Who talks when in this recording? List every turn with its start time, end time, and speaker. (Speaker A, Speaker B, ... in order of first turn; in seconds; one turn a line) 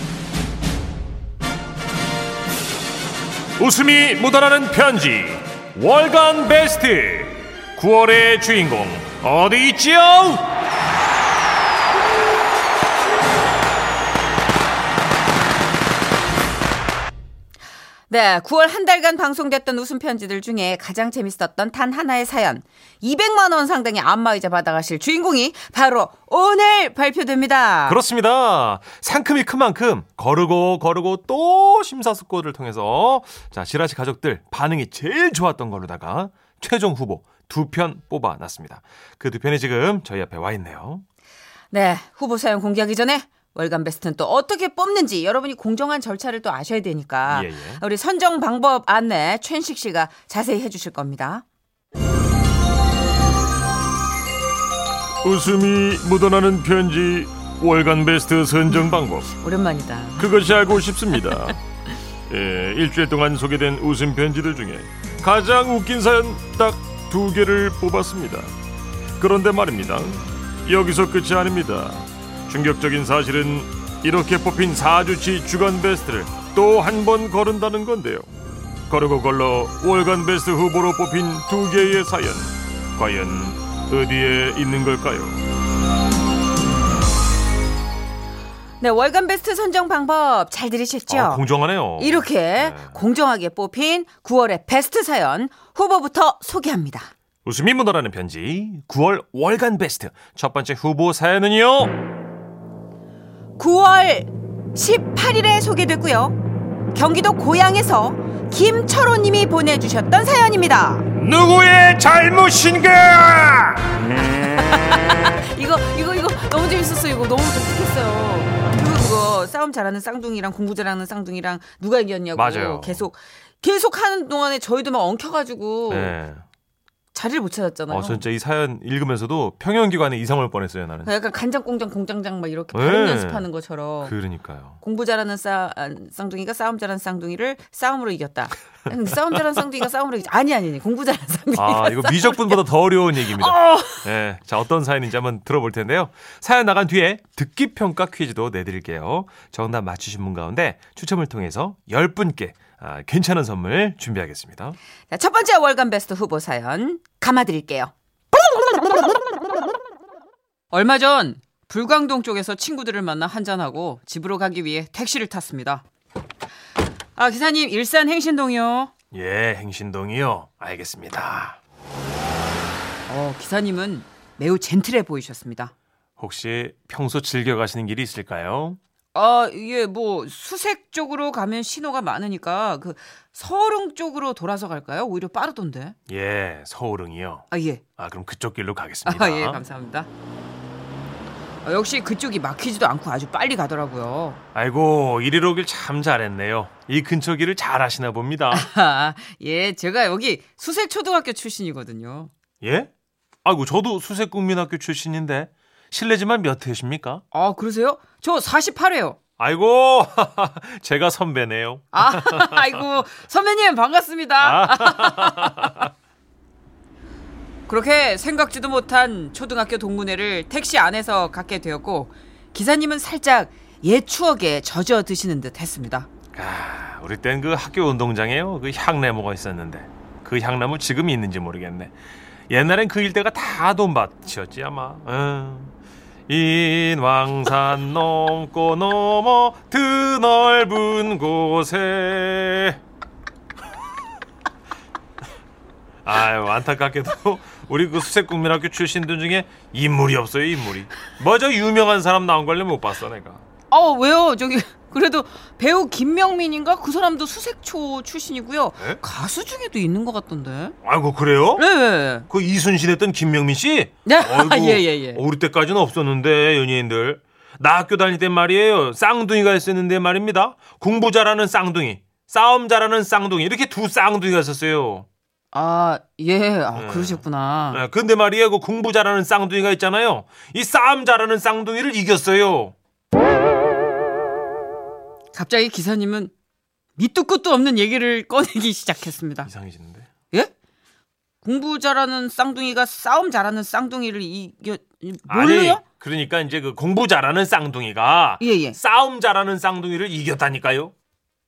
Speaker A: 3.6-10.6
Speaker B: 18.1-28.0
Speaker A: 27.9-41.0
Speaker B: 41.7-51.4
Speaker A: 47.3-47.8
Speaker A: 55.2-59.3
Speaker B: 59.4-60.5
Speaker A: 60.2-61.6
Speaker A: 62.3-68.5
Speaker A: 69.2-78.3
Speaker A: 78.9-85.4
Speaker B: 88.8-91.4
Speaker A: 91.1-93.0
Speaker B: 92.0-97.1
Speaker A: 97.4-102.0
Speaker B: 103.6-106.4
Speaker B: 106.9-111.1
Speaker A: 111.1-114.1
Speaker B: 114.4-126.1
Speaker A: 122.3-123.1
Speaker A: 125.9-126.4
Speaker B: 127.1-128.2
Speaker A: 127.9-131.1
Speaker B: 131.0-134.1
Speaker A: 132.7-133.4
Speaker A: 134.0-134.8
Speaker B: 134.8-142.6
Speaker A: 141.5-154.8
Speaker B: 143.2-144.1
Speaker B: 155.1-157.9
Speaker B: 158.6-159.0
Speaker B: 160.7-165.8
Speaker B: 167.2-168.9
Speaker A: 169.1-171.6
Speaker B: 173.1-175.7
Speaker A: 176.2-178.8
Speaker B: 179.1-185.9
Speaker A: 186.1-189.6
Speaker B: 187.5-187.8
Speaker B: 189.1-190.1
Speaker B: 191.6-194.4
Speaker A: 194.5-198.7
Speaker B: 198.5-202.3
Speaker A: 202.6-202.9
Speaker A: 203.4-207.2
Speaker B: 207.3-209.2
Speaker A: 209.4-212.8
Speaker B: 211.9-215.8
Speaker A: 214.4-215.9
Speaker B: 217.7-226.1
Speaker A: 226.3-231.9
Speaker A: 232.5-235.7
Speaker A: 236.3-242.8
Speaker A: 246.0-253.4
Speaker B: 253.7-260.8
Speaker A: 260.8-261.6
Speaker B: 261.6-262.3
Speaker A: 262.3-275.1
Speaker B: 264.0-265.2
Speaker B: 275.5-277.8
Speaker A: 276.7-282.7
Speaker B: 285.3-286.3
Speaker B: 287.0-289.5
Speaker A: 289.4-290.1
Speaker B: 291.4-295.8
Speaker A: 295.3-300.9
Speaker B: 298.4-298.8